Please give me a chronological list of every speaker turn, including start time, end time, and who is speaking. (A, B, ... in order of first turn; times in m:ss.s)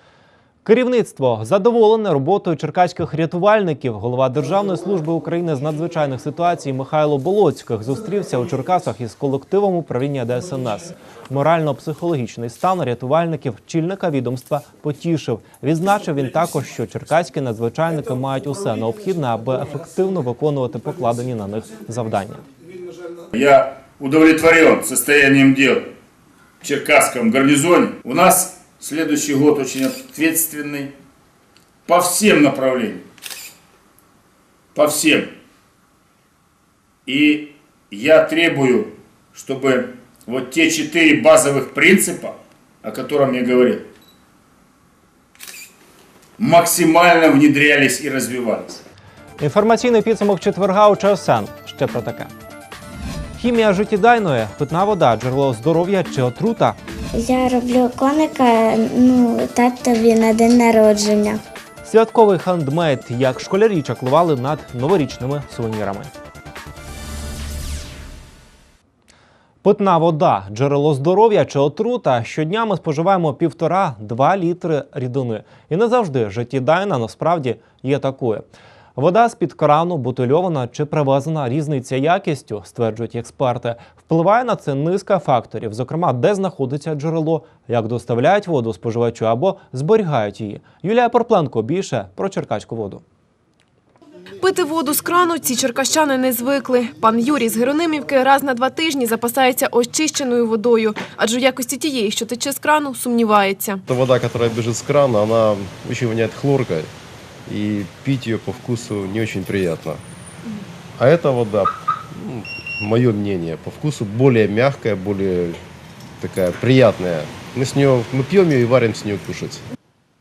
0:00.6-0:22.4 A
0:23.3-0:25.9 B
0:26.6-0:30.9 B
0:31.9-0:33.0 B
0:34.7-0:35.3 B
0:37.1-0:43.8 B
0:46.4-0:48.8 B
0:49.4-0:52.3 A
0:53.4-0:56.8 A
0:57.1-1:01.4 C
1:01.8-1:06.1 A
1:09.6-1:33.0 A
1:34.4-1:43.8 D
1:43.9-1:46.9 E
1:47.5-1:50.0 E
1:51.0-1:55.6 E
1:56.2-1:59.6 E